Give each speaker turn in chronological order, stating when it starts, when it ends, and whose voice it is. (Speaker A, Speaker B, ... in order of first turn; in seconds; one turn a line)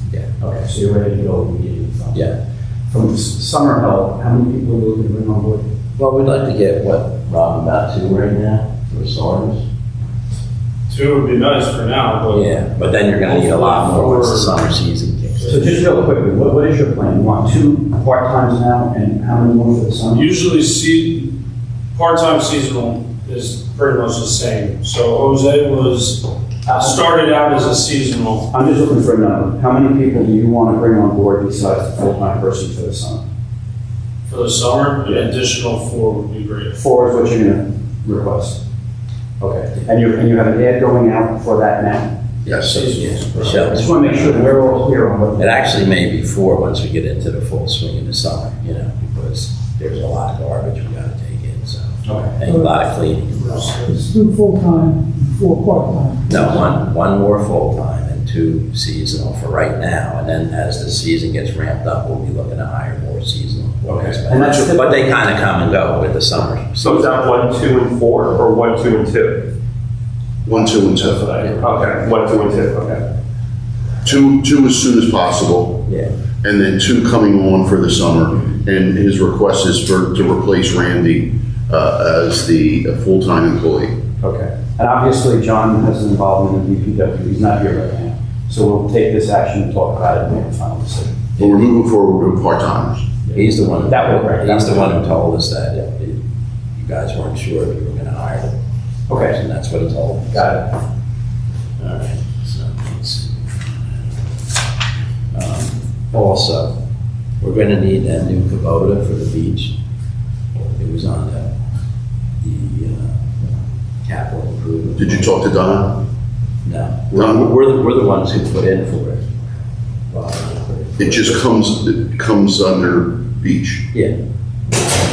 Speaker A: 0.4-2.3
Speaker A: 2.9-5.7
Speaker B: 6.0-9.6
Speaker C: 10.9-12.5
Speaker B: 12.3-15.7
Speaker C: 13.0-14.5
Speaker A: 15.5-20.3
Speaker C: 20.1-21.3
Speaker C: 21.9-28.5
Speaker A: 26.6-27.0
Speaker A: 28.5-33.2
Speaker C: 34.3-36.8
Speaker A: 36.7-38.6
Speaker A: 39.4-42.1
Speaker B: 42.5-44.8
Speaker C: 42.5-44.3
Speaker A: 43.7-45.7
Speaker B: 45.4-53.8
Speaker A: 52.0-52.3
Speaker D: 52.4-52.8
Speaker C: 53.4-54.0
Speaker D: 53.8-56.8
Speaker B: 56.3-67.3
Speaker A: 63.9-65.0
Speaker E: 66.8-69.4
Speaker F: 70.4-71.5
Speaker E: 71.6-73.0
Speaker F: 74.0-75.8
Speaker F: 76.4-84.0
Speaker A: 84.2-91.4
Speaker F: 91.4-93.1
Speaker A: 93.3-95.0
Speaker B: 93.3-96.2
Speaker B: 96.8-98.5
Speaker A: 99.1-99.3
Speaker B: 99.1-100.7
Speaker A: 100.3-100.6
Speaker B: 101.8-104.2
Speaker B: 105.3-106.7
Speaker B: 107.4-109.7
Speaker B: 110.8-111.5
Speaker B: 112.4-113.1
Speaker B: 114.0-115.4
Speaker F: 115.0-116.0
Speaker B: 116.6-119.3
Speaker F: 117.1-117.5
Speaker B: 120.1-121.4
Speaker F: 121.0-123.8